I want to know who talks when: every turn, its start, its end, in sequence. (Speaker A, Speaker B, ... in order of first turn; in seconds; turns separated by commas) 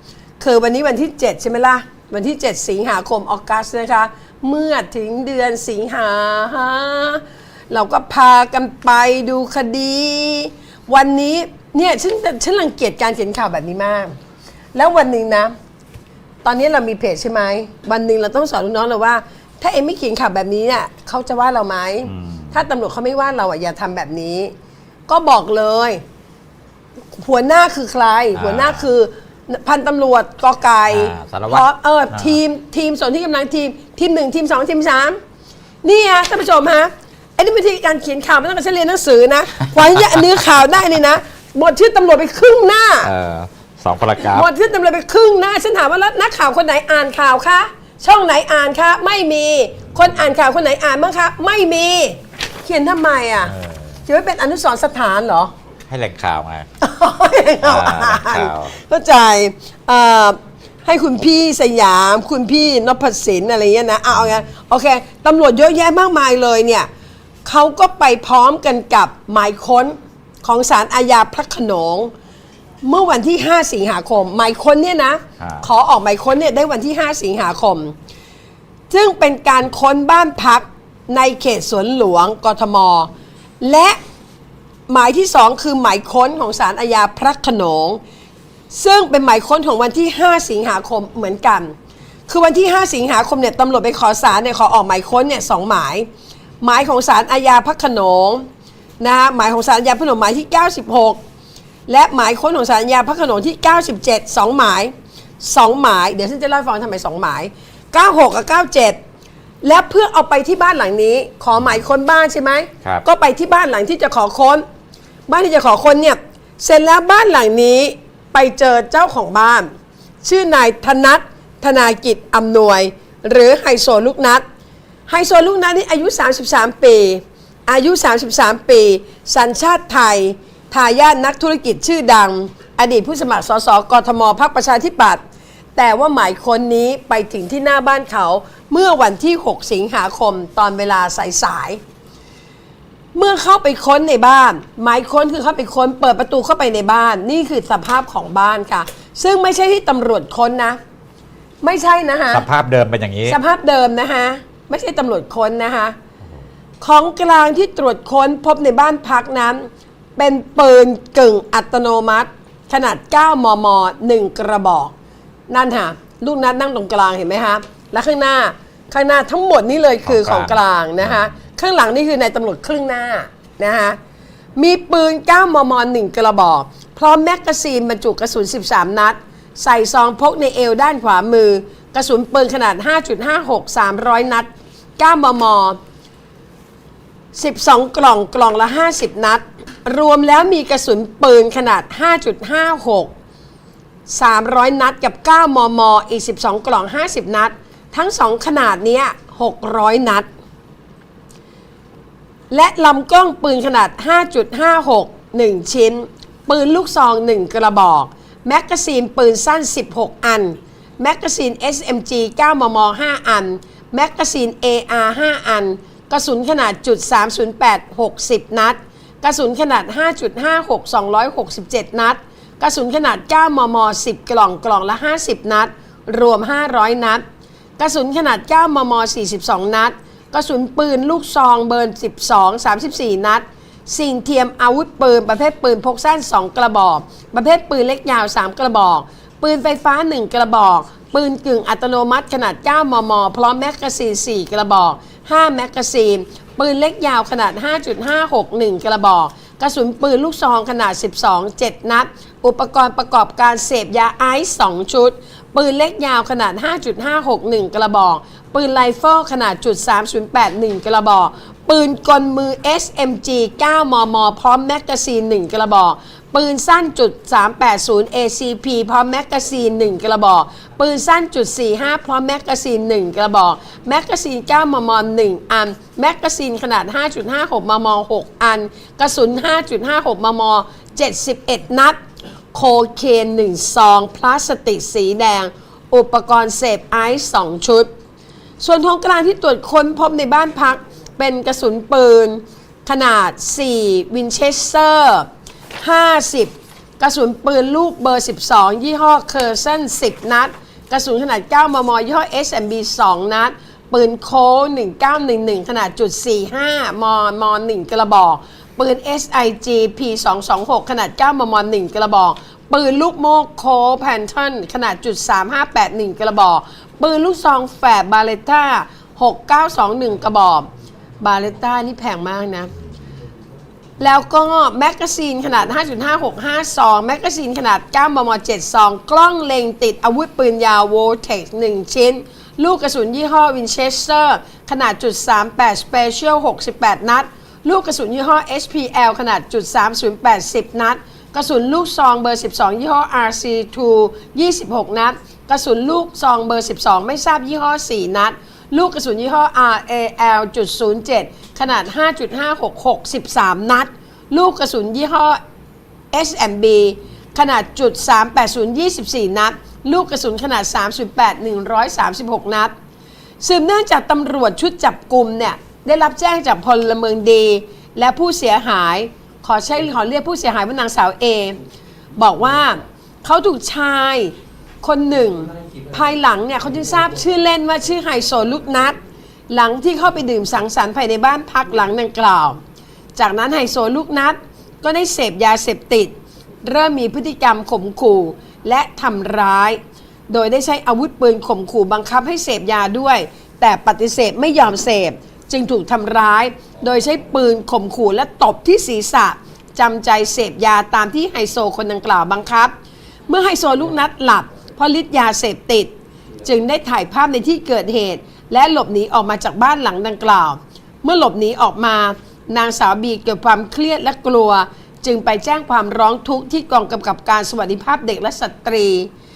Speaker A: 0.4-14.2, Speaker A: 14.7-15.5, Speaker A: 16.4-24.5, Speaker B: 22.1-22.5, Speaker A: 25.1-26.0, Speaker A: 27.1-35.2, Speaker B: 28.3-28.8, Speaker B: 30.9-32.3, Speaker A: 35.8-43.1, Speaker B: 43.0-44.5, Speaker A: 44.2-55.5, Speaker B: 53.5-53.8, Speaker B: 55.9-56.7, Speaker A: 56.8-66.9, Speaker B: 57.6-58.7, Speaker A: 67.4-72.1, Speaker A: 72.8-77.9, Speaker A: 78.9-83.1, Speaker A: 83.6-84.0, Speaker A: 84.9-88.0, Speaker A: 88.7-91.7, Speaker A: 92.3-96.1, Speaker A: 96.6-98.5, Speaker A: 99.0-101.2, Speaker A: 101.9-109.0, Speaker A: 109.6-114.6, Speaker A: 115.3-119.7, Speaker A: 120.2-124.4, Speaker A: 125.1-135.2, Speaker A: 135.8-141.8, Speaker A: 143.1-150.8, Speaker A: 151.6-152.4, Speaker B: 152.3-153.4, Speaker A: 153.2-155.9, Speaker A: 156.8-164.9, Speaker A: 165.5-174.0, Speaker B: 170.0-170.6, Speaker A: 174.6-185.8, Speaker A: 187.3-193.1, Speaker A: 194.1-200.3, Speaker A: 202.5-227.2, Speaker A: 227.8-282.0, Speaker A: 282.5-287.9, Speaker A: 288.6-320.7, Speaker A: 321.2-322.7, Speaker A: 324.0-355.4, Speaker A: 356.1-362.7, Speaker A: 363.4-371.6, Speaker A: 372.2-379.0, Speaker A: 379.5-382.6, Speaker A: 383.1-402.7, Speaker A: 403.3-405.9, Speaker A: 406.4-419.1